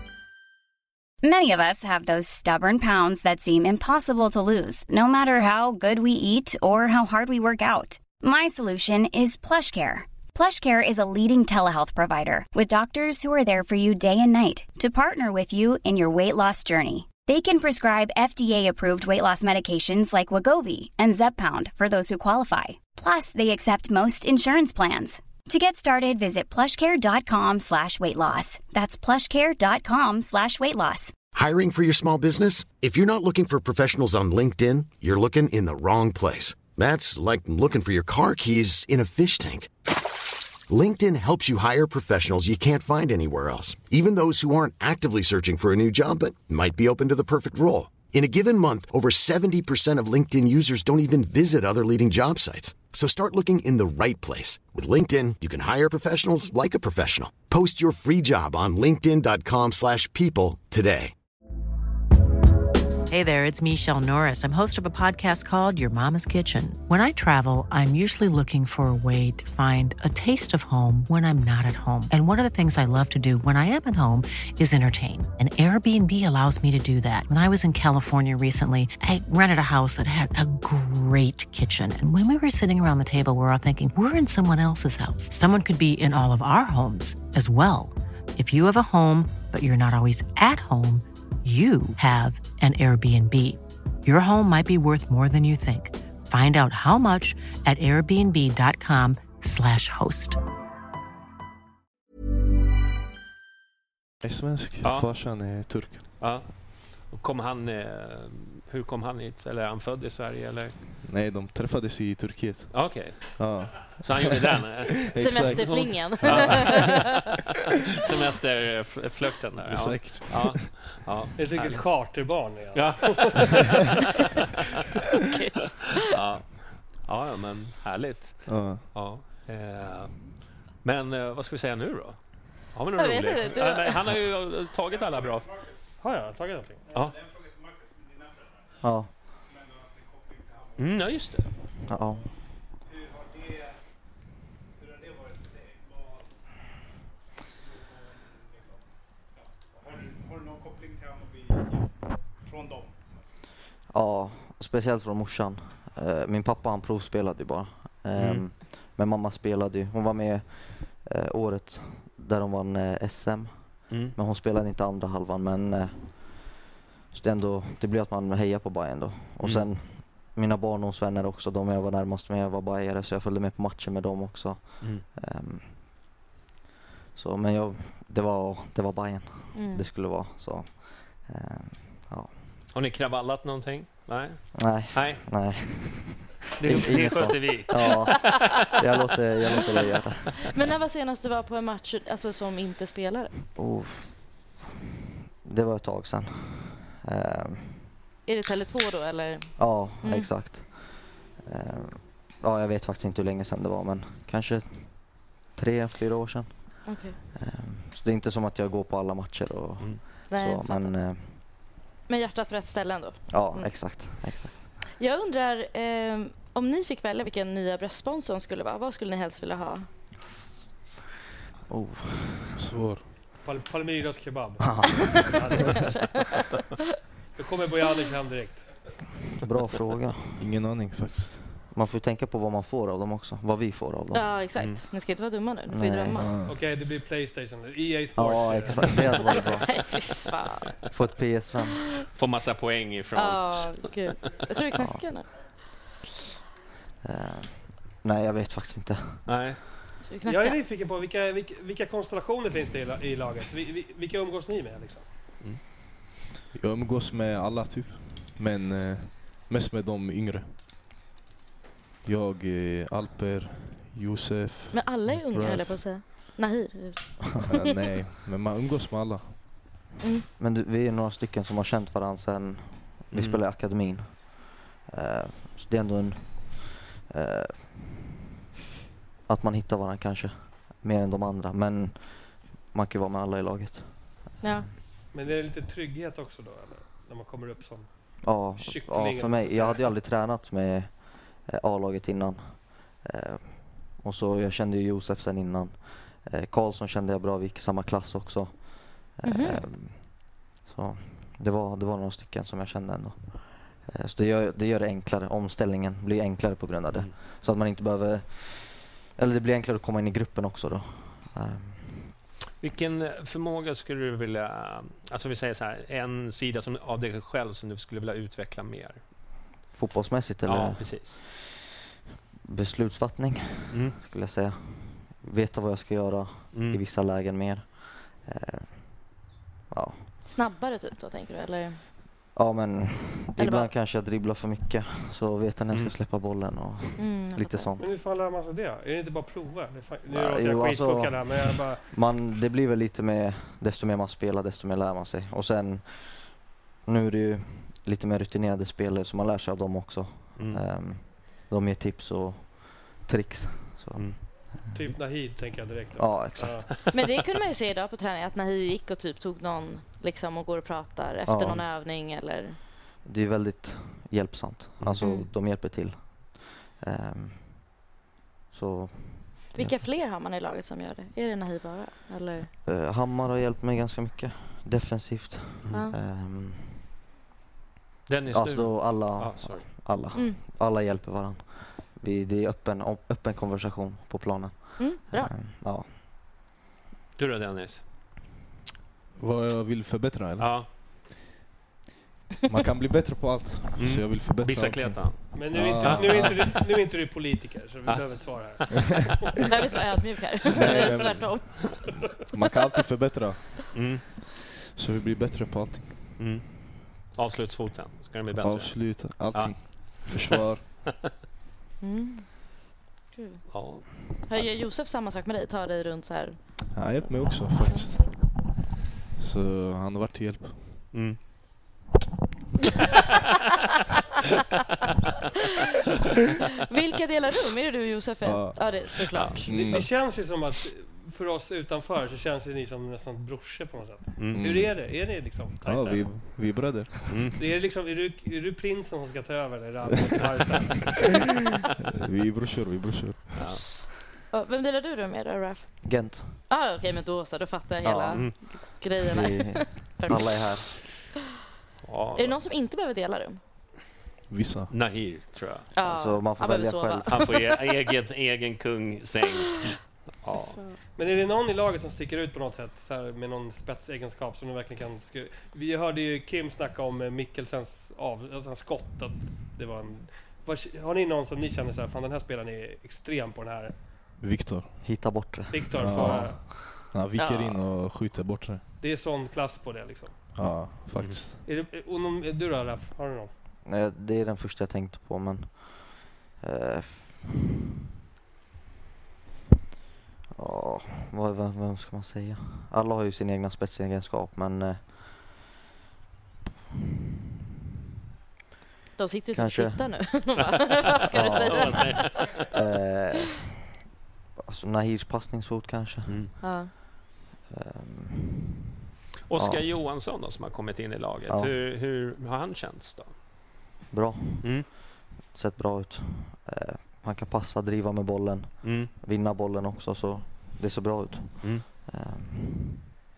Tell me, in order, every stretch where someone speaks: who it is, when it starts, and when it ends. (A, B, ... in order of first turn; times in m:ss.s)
0:01.2-0:31.2 A
0:31.3-0:39.7 B
0:40.7-1:01.1 B
1:03.1-1:40.4 C
1:44.2-1:46.1 D
1:44.8-1:45.1 E
1:46.2-1:50.8 E
1:51.0-1:56.9 D
1:52.7-1:55.6 E
1:55.2-1:57.0 F
1:56.2-1:57.2 E
1:57.9-2:02.1 E
1:59.6-2:00.7 D
2:01.4-2:03.9 G
2:02.7-2:03.8 E
2:05.3-2:06.0 F
2:06.0-2:15.6 E
2:08.5-2:08.9 D
2:13.0-2:14.0 F
2:16.0-2:16.9 G
2:16.9-2:17.2 E
2:18.8-2:19.1 H
2:20.8-2:21.6 E
2:21.8-2:22.3 H
2:33.9-2:46.6 H
2:38.2-2:38.4 E
2:43.9-2:44.2 E
2:47.1-2:55.9 H
2:49.4-2:49.7 E
2:57.2-3:02.4 H
2:59.5-2:59.9 F
3:02.7-3:05.2 E
3:04.6-3:10.5 H
3:06.6-3:08.6 E
3:10.5-3:13.3 F
3:13.6-3:14.5 H
3:15.4-3:17.9 H
3:18.3-3:20.3 F
3:19.6-3:31.4 H
3:26.8-3:27.2 F
3:30.3-3:30.9 F
3:32.1-3:33.7 F
3:33.3-3:34.7 H
3:35.0-3:39.9 F
3:41.7-3:42.6 H
3:42.6-3:43.1 D
3:43.4-3:45.9 G
3:44.6-3:45.8 H
3:45.8-3:46.6 F
3:47.4-3:48.8 G
3:49.4-3:50.4 H
3:50.4-3:51.6 D
3:51.7-3:54.4 H
3:54.1-3:56.3 F
3:55.7-3:56.4 H
3:56.2-3:56.6 D
3:56.4-3:59.4 G
3:58.2-3:59.8 H
3:59.6-4:00.7 F
4:00.9-4:01.8 H
4:02.1-4:03.9 E
4:03.2-4:05.3 F
4:04.7-4:05.1 H
4:07.0-4:09.5 H
4:09.3-4:09.6 E
4:10.1-4:10.6 F
4:10.2-4:15.1 G
4:16.5-4:20.5 D
4:22.0-4:26.0 D
4:24.7-4:27.6 F
4:27.5-4:29.3 D
4:30.0-4:30.3 F
4:30.4-4:38.0 H
4:33.1-4:33.4 E
4:39.3-4:44.7 H
4:44.4-4:44.7 F
4:45.1-4:50.0 G
4:48.2-5:12.2 H
4:59.2-4:59.6 F
5:12.6-5:19.0 E
5:19.7-5:21.4 H
5:20.5-5:21.2 E
5:22.4-5:30.1 H
5:23.7-5:24.0 E
5:26.5-5:26.8 E
5:30.2-5:31.8 F
5:32.4-5:37.8 H
5:33.4-5:33.7 F
5:37.0-5:37.7 F
5:37.8-5:41.9 G
5:40.1-5:55.0 H
5:50.4-5:50.6 E
5:54.7-5:56.7 G
5:56.0-5:56.7 H
5:56.9-6:02.6 F
6:01.3-6:01.7 H
6:03.0-6:07.8 H
6:05.0-6:05.3 F
6:08.5-6:09.8 H
6:09.5-6:12.5 F
6:12.6-6:16.8 H
6:18.1-6:20.0 E
6:18.3-6:25.9 H
6:24.8-6:25.3 F
6:27.2-6:27.8 E
6:29.2-6:30.7 D
6:30.4-6:30.7 E
6:32.5-6:36.5 D
6:33.8-6:36.5 E
6:35.3-6:39.2 G
6:37.9-6:39.0 E
6:39.5-6:41.9 F
6:40.5-6:44.0 D
6:40.8-6:41.2 E
6:43.7-6:44.0 E
6:44.7-6:46.0 D
6:46.2-6:50.4 E
6:48.4-6:50.9 D
6:51.8-6:57.9 F
6:53.5-6:54.4 E
6:56.7-6:58.4 D
6:59.2-7:00.8 D
7:00.9-7:01.2 E
7:06.7-7:09.6 F
7:08.2-7:09.9 D
7:09.5-7:16.2 G
7:14.2-7:14.5 E
7:14.3-7:14.8 D
7:15.6-7:17.3 D
7:17.1-7:17.4 E
7:17.4-7:21.1 G
7:22.0-7:23.5 D
7:23.4-7:23.6 E
7:24.3-7:30.4 F
7:25.8-7:26.4 H
7:27.8-7:30.7 H
7:31.8-7:32.4 E
7:32.2-7:33.4 F
7:34.3-7:34.7 D
7:34.7-7:35.7 E
7:35.8-7:37.4 F
7:35.8-7:37.3 H
7:37.1-7:40.6 E
7:40.4-7:40.8 F
7:41.0-7:53.9 G
7:54.2-7:55.2 D
7:54.8-7:56.7 H
7:55.5-7:56.4 G
7:55.8-7:58.6 D
7:57.2-7:57.6 F
7:58.8-8:00.2 G
8:00.3-8:01.4 D
8:01.4-8:03.3 G
8:03.6-8:07.3 H
8:10.4-8:15.4 H
8:19.0-8:22.4 F
8:19.3-8:20.2 H
8:21.1-8:23.5 H
8:21.4-8:22.5 E
8:24.5-8:26.4 H
8:26.1-8:26.3 E
8:26.4-8:26.7 F
8:27.5-8:28.5 H
8:29.3-8:33.2 E
8:29.4-8:29.6 H
8:31.3-8:31.5 H
8:33.9-8:42.9 H
8:34.4-8:34.7 E
8:38.6-8:38.9 E